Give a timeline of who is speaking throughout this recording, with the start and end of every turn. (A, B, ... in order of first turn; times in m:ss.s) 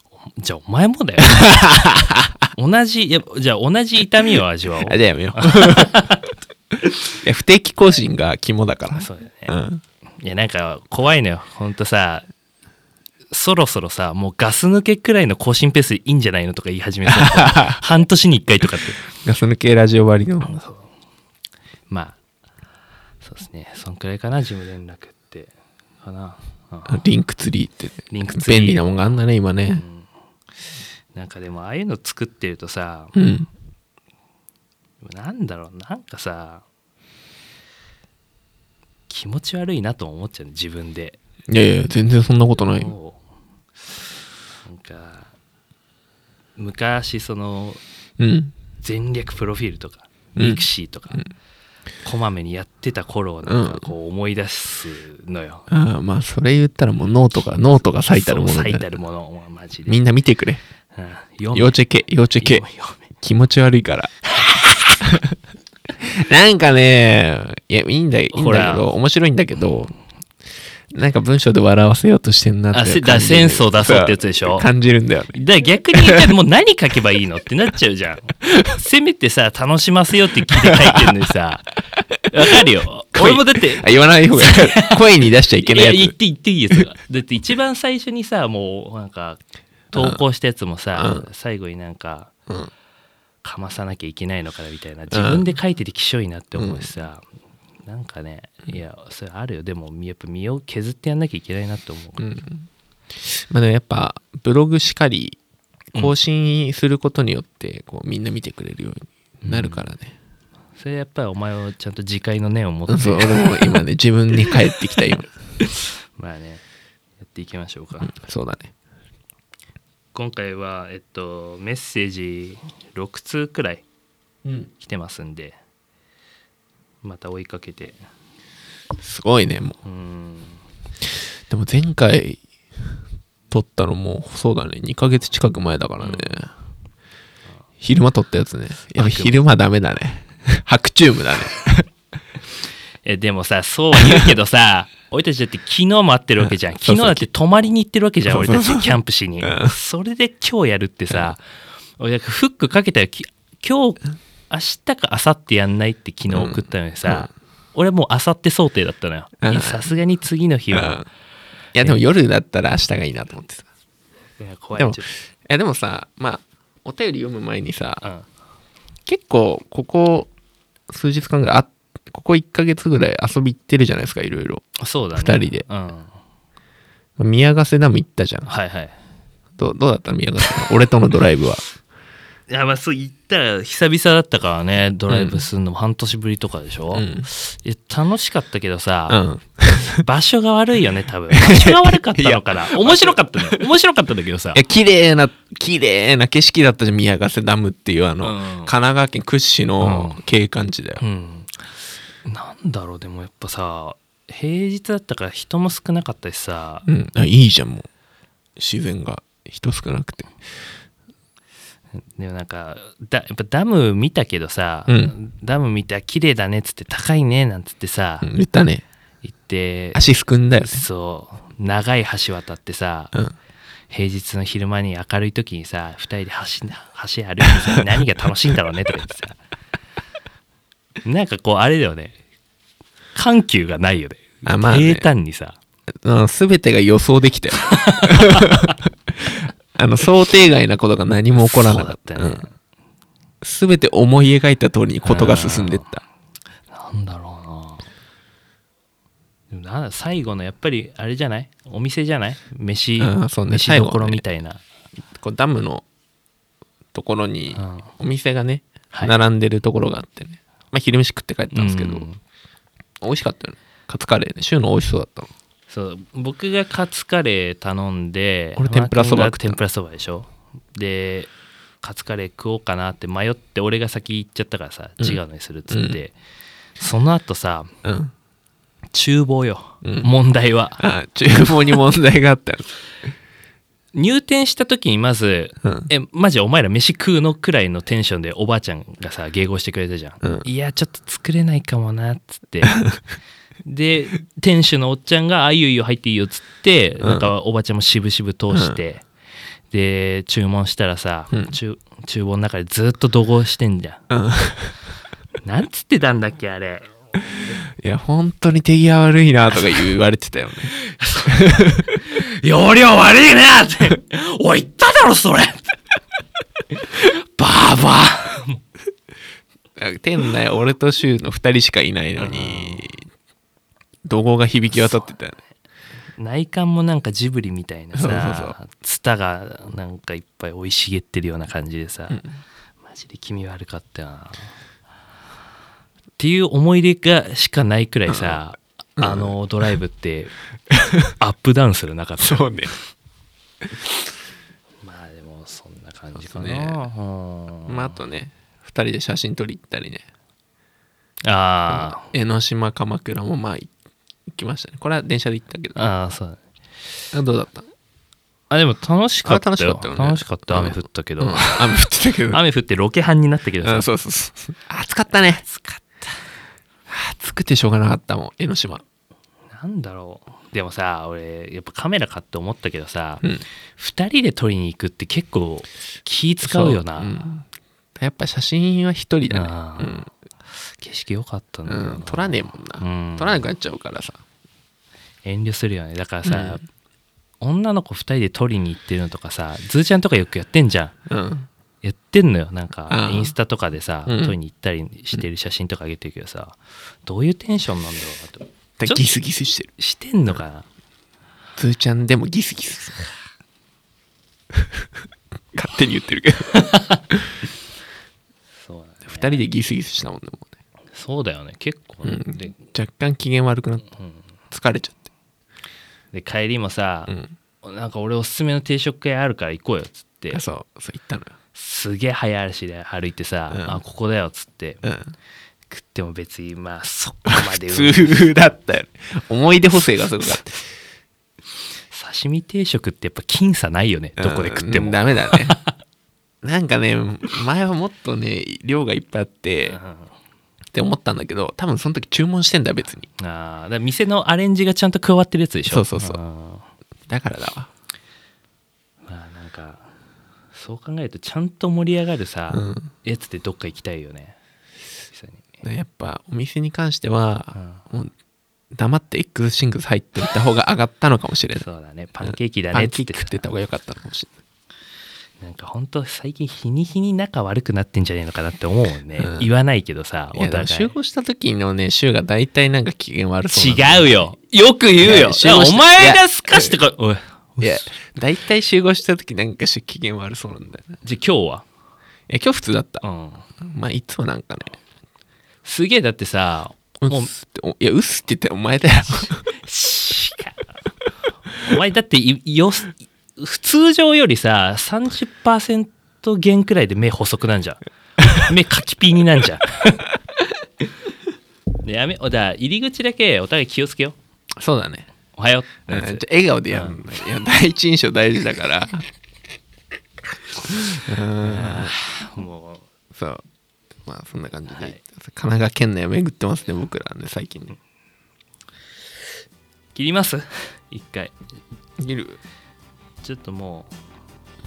0:00.4-0:01.6 A
0:01.2-0:02.3 B
0:02.6-0:06.3 A
0:04.8-0:06.1 B
0:07.2-0:09.8 B
0:08.9-0:09.6 A
0:10.2-0:12.3 A
0:13.3-0:19.0 A
0:17.1-0:17.8 B
0:19.2-0:20.6 B
0:20.4-0:20.9 A
0:21.9-0:22.2 A
0:23.2-0:27.0 A
0:26.9-0:29.8 B
0:28.1-0:29.1 A
0:29.7-0:30.1 A
0:31.1-0:33.2 A
0:33.2-0:33.5 B
0:35.0-0:36.6 A
0:39.1-0:41.2 A
0:41.5-0:42.9 B
0:42.6-0:43.2 A
0:44.6-0:45.3 A
0:46.6-0:47.8 A
0:48.2-0:48.5 B
0:48.8-0:51.2 A
0:50.4-0:51.3 B
0:52.0-0:55.7 A
0:53.4-0:53.9 B
0:55.7-0:58.9 B
0:58.1-1:00.0 A
0:59.9-1:00.6 B
1:00.9-1:01.8 A
1:01.5-1:02.6 B
1:02.4-1:03.1 A
1:03.2-1:04.1 B
1:04.3-1:05.0 A
1:05.0-1:05.4 B
1:06.0-1:09.9 B
1:08.3-1:08.9 A
1:10.9-1:15.4 B
1:12.7-1:14.7 A
1:15.3-1:21.8 A
1:20.8-1:21.1 B
1:22.2-1:26.1 B
1:22.3-1:25.0 A
1:25.6-1:32.3 A
1:31.0-1:31.3 B
1:33.4-1:37.2 A
1:35.1-1:35.4 B
1:36.6-1:36.9 B
1:37.9-1:42.3 A
1:42.2-1:42.7 B
1:43.2-1:45.4 B
1:46.0-1:50.1 B
1:49.4-1:49.8 A
1:50.8-1:53.8 A
1:52.9-1:55.3 B
1:55.6-1:56.6 A
1:57.2-1:58.1 A
1:58.1-1:58.7 B
2:00.1-2:03.8 A
2:04.8-2:05.6 A
2:07.0-2:08.0 A
2:09.0-2:09.8 B
2:09.8-2:10.6 A
2:11.5-2:12.4 B
2:13.5-2:16.5 B
2:16.0-2:16.4 A
2:17.8-2:21.9 B
2:19.0-2:19.4 A
2:23.0-2:31.4 A
2:24.0-2:24.4 B
2:26.4-2:27.3 B
2:28.3-2:29.8 B
2:32.0-2:41.0 A
2:36.3-2:37.3 B
2:39.4-2:39.9 B
2:40.7-2:41.1 B
2:41.8-2:43.7 B
2:44.4-2:45.2 A
2:44.8-2:48.0 B
2:49.1-2:50.3 B
2:50.9-2:55.7 B
2:54.8-2:56.1 A
2:57.2-2:58.5 B
2:58.5-2:59.0 A
2:59.6-3:01.6 B
3:02.5-3:14.6 A
3:05.1-3:05.4 B
3:06.9-3:07.3 B
3:09.1-3:10.0 B
3:11.4-3:13.6 B
3:14.5-3:21.0 B
3:18.2-3:18.7 A
3:19.8-3:20.2 A
3:21.0-3:26.9 A
3:26.9-3:27.9 B
3:28.6-3:30.3 B
3:32.2-3:38.3 A
3:34.9-3:35.2 B
3:38.2-3:38.8 B
3:39.2-3:40.0 A
3:39.9-3:40.8 B
3:40.6-3:43.1 A
3:43.9-3:49.4 A
3:51.0-3:52.2 A
3:53.2-3:55.6 A
3:54.5-3:55.1 B
3:56.0-4:02.5 B
3:57.8-3:58.7 A
4:01.4-4:02.5 A
4:03.4-4:06.0 B
4:05.0-4:05.9 A
4:06.7-4:07.8 A
4:09.5-4:14.6 A
4:13.0-4:14.2 B
4:15.2-4:15.8 B
4:16.9-4:22.1 B
4:17.6-4:17.9 A
4:21.5-4:22.2 A
4:23.0-4:25.3 B
4:25.7-4:36.2 A
4:28.6-4:29.6 B
4:35.0-4:36.0 B
4:36.8-4:37.7 A
4:37.8-4:38.1 B
4:38.9-4:40.8 A
4:39.8-4:40.1 B
4:40.8-4:42.7 B
4:43.9-4:52.8 A
4:45.6-4:45.9 B
4:53.6-4:59.1 A
4:57.0-4:57.3 B
4:58.5-4:58.8 B
4:59.7-5:04.0 A
5:04.1-5:04.7 B
5:05.4-5:07.0 A
5:07.8-5:10.8 B
5:09.6-5:09.8 A
5:10.7-5:15.7 A
5:11.3-5:11.8 B
5:16.9-5:18.6 A
5:19.8-5:23.0 B
5:22.2-5:22.9 A
5:24.1-5:25.4 B
5:24.7-5:25.2 A
5:26.2-5:32.2 A
5:28.0-5:28.6 B
5:32.1-5:32.4 B
5:32.9-5:34.5 A
5:36.2-5:40.4 A
5:38.1-5:38.4 B
5:39.0-5:39.4 B
5:40.7-5:41.1 B
5:41.2-5:42.6 A
5:42.2-5:42.7 B
5:44.8-5:48.0 A
5:46.2-5:46.8 B
5:47.7-5:50.0 B
5:51.2-5:52.1 A
5:51.7-5:53.7 B
5:54.3-5:55.9 B
5:55.8-5:56.4 A
5:57.1-5:57.7 B
5:58.5-6:01.7 A
5:59.2-6:02.4 B
6:02.3-6:03.9 A
6:03.6-6:05.4 B
6:05.4-6:06.2 A
6:06.9-6:08.8 B
6:09.5-6:13.2 A
6:13.8-6:17.1 A
6:16.4-6:17.5 B
6:18.0-6:20.1 B
6:19.3-6:20.0 A
6:20.7-6:23.4 A
6:21.7-6:24.2 B
6:25.2-6:26.6 A
6:26.2-6:26.6 B
6:27.4-6:30.9 A
6:31.1-6:31.5 B
6:31.8-6:39.1 A
6:32.9-6:33.3 B
6:34.1-6:34.4 B
6:38.8-6:39.7 B
6:39.8-6:40.7 A
6:41.6-6:43.1 B
6:45.5-6:47.2 B
6:46.5-6:47.0 A
6:48.6-6:49.4 A
6:49.0-6:50.5 B
6:50.9-6:52.5 A
6:52.0-6:53.9 B
6:54.5-6:55.0 B
6:56.1-7:00.4 A
7:00.3-7:01.3 B
7:01.5-7:04.8 A
7:03.5-7:03.8 B
7:04.8-7:05.1 B
7:05.7-7:08.3 A
7:07.5-7:10.7 B
7:11.9-7:15.7 A
7:14.2-7:15.6 B
7:16.4-7:19.8 B
7:19.7-7:20.1 A
7:20.7-7:23.1 B
7:23.2-7:26.7 A
7:25.7-7:26.2 B
7:27.1-7:27.7 B
7:29.1-7:29.9 A
7:30.5-7:34.4 A
7:32.5-7:32.9 B
7:35.1-7:35.6 A
7:35.6-7:38.1 B
7:37.5-7:37.8 A
7:38.7-7:41.7 B
7:41.5-7:43.4 A
7:42.3-7:44.3 B
7:45.4-7:50.9 A
7:49.2-7:49.5 B
7:50.3-7:54.3 B
7:53.5-7:58.0 A
7:55.0-7:56.8 B
7:57.6-8:01.0 B
8:01.0-8:01.7 A
8:02.3-8:03.0 B
8:03.0-8:03.5 A
8:03.6-8:04.8 B
8:05.6-8:07.3 A
8:07.0-8:09.4 B
8:09.2-8:10.7 A
8:11.6-8:20.1 A
8:21.8-8:24.2 A
8:24.6-8:25.1 B
8:25.4-8:27.0 A
8:25.9-8:29.1 B
8:30.9-8:32.0 B
8:31.4-8:32.9 A
8:33.1-8:33.4 B
8:34.0-8:37.8 B
8:34.7-8:35.0 A
8:39.9-8:41.4 A
8:42.0-8:42.4 B
8:43.2-8:43.9 A